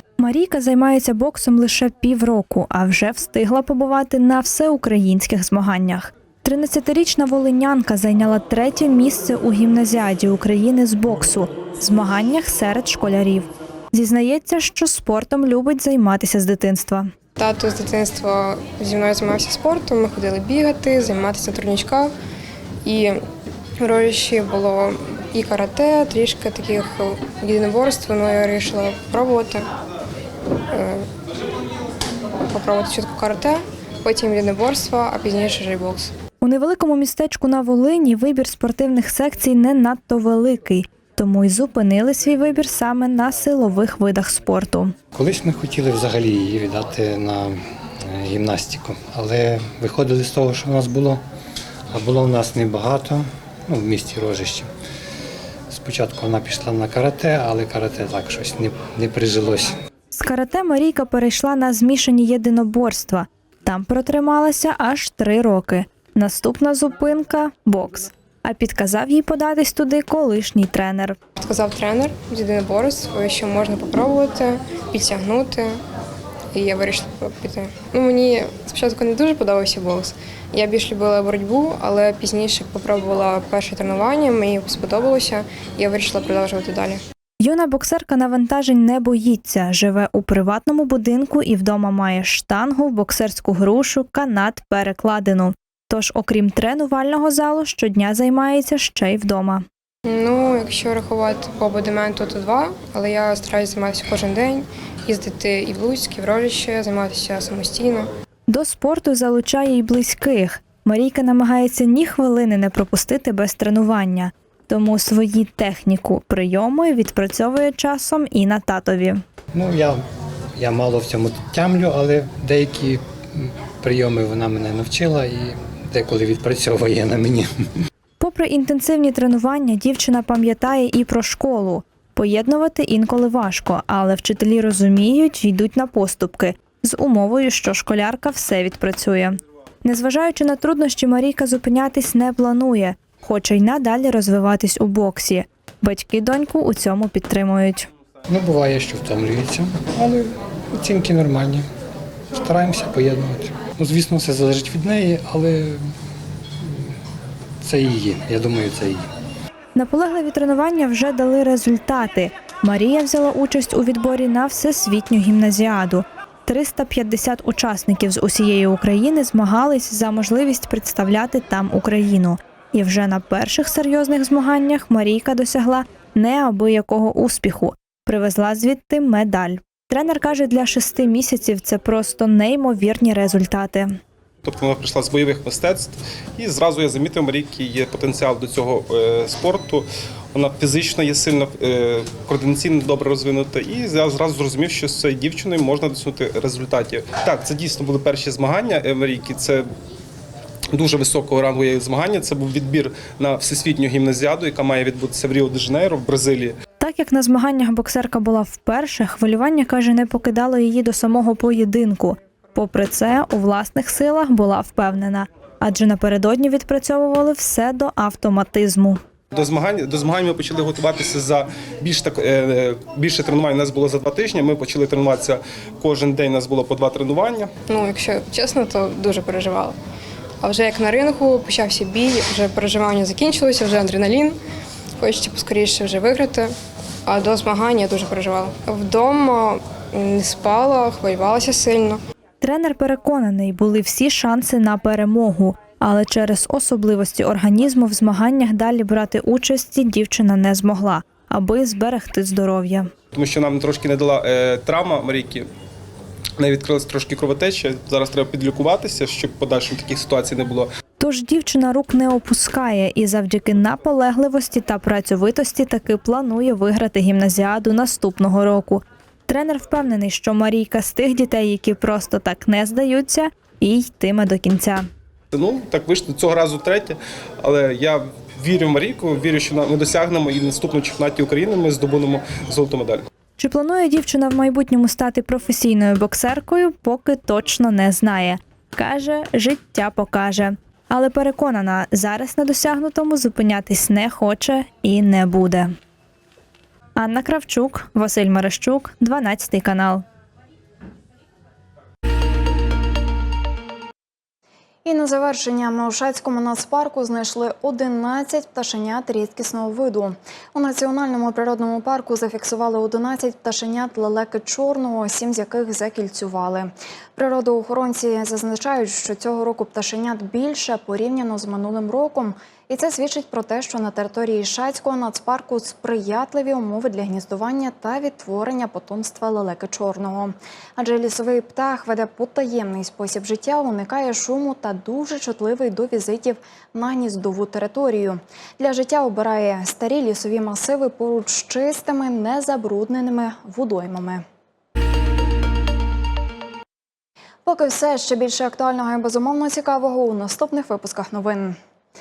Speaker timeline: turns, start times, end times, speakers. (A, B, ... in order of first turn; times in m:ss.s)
0:00.2-0:17.1 A
0:17.4-0:22.1 B
0:22.8-0:23.2 B
0:23.8-0:29.6 B
0:30.7-0:31.0 B
0:32.5-0:36.1 B
0:36.4-0:44.9 A
0:45.1-0:51.2 C
0:51.9-0:54.7 C
0:55.7-0:59.7 C
1:00.1-1:11.2 A
1:11.4-1:15.8 B
1:16.5-1:27.0 B
1:27.4-1:39.6 A
1:40.0-1:48.1 B
1:48.5-1:59.2 A
1:59.5-2:00.0 C
2:00.6-2:07.5 C
2:08.2-2:27.9 A
2:28.3-2:31.7 C
2:32.3-2:35.8 C
2:36.6-2:37.0 C
2:37.6-2:39.1 C
2:39.7-3:03.9 A
3:04.4-3:19.6 D
3:20.7-3:26.6 D
3:26.8-3:39.0 A
3:39.3-3:47.5 D
3:47.7-3:49.8 B
3:50.4-3:54.4 B
3:55.0-3:56.5 B
3:57.0-4:02.0 B
4:02.4-4:12.9 A
4:13.1-4:15.5 D
4:16.4-4:20.7 D
4:21.0-4:34.9 A
4:35.3-4:43.0 D
4:43.4-4:55.7 A
4:57.0-5:00.0 A
5:04.8-5:44.2 E
5:47.4-5:51.6 E